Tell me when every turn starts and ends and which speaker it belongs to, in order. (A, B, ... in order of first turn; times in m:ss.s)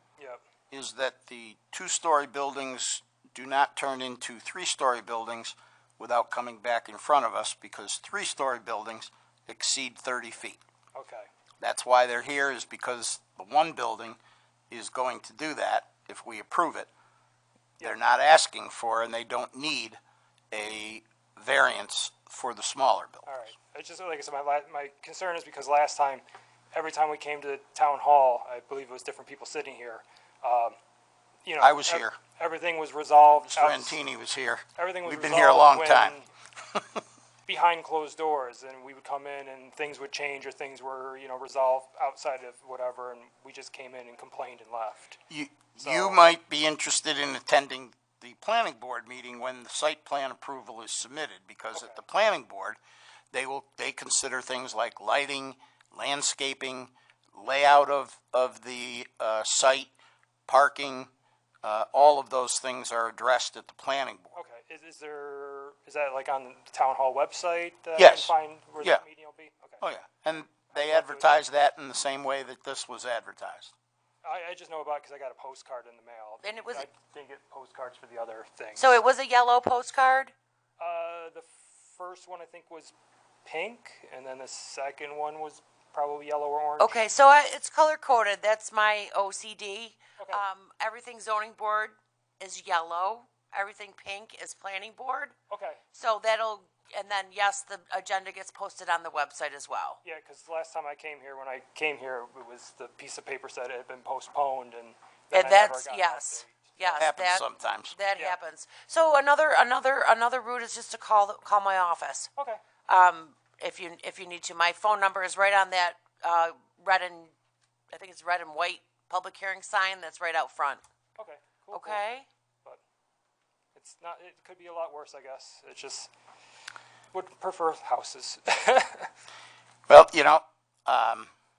0:00.7-0:10.6 A
0:10.9-0:11.3 B
0:11.6-0:14.2 A
0:14.7-0:16.9 A
0:17.8-0:20.0 A
0:20.5-0:23.3 A
0:23.2-0:30.8 B
0:31.4-0:34.0 B
0:31.6-0:32.2 A
0:33.3-0:36.2 A
0:34.8-0:36.3 B
0:37.5-0:45.2 B
0:45.3-0:52.8 A
0:45.8-0:46.2 B
0:51.7-0:52.0 B
0:53.3-0:59.9 A
1:00.5-1:01.1 A
1:01.6-1:04.4 A
1:04.3-1:09.8 B
1:08.0-1:09.0 A
1:09.8-1:13.7 A
1:10.7-1:11.4 B
1:14.2-1:19.0 B
1:16.4-1:16.9 C
1:18.8-1:20.3 C
1:20.8-1:22.9 B
1:23.4-1:27.0 B
1:26.8-1:35.3 C
1:35.5-1:35.8 B
1:35.9-1:40.0 C
1:40.0-1:46.8 B
1:45.3-1:52.3 C
1:46.9-1:47.9 A
1:52.9-1:57.3 C
1:57.9-2:00.8 C
2:01.2-2:02.0 B
2:01.7-2:02.3 C
2:03.7-2:06.1 B
2:07.1-2:09.1 B
2:09.9-2:11.3 A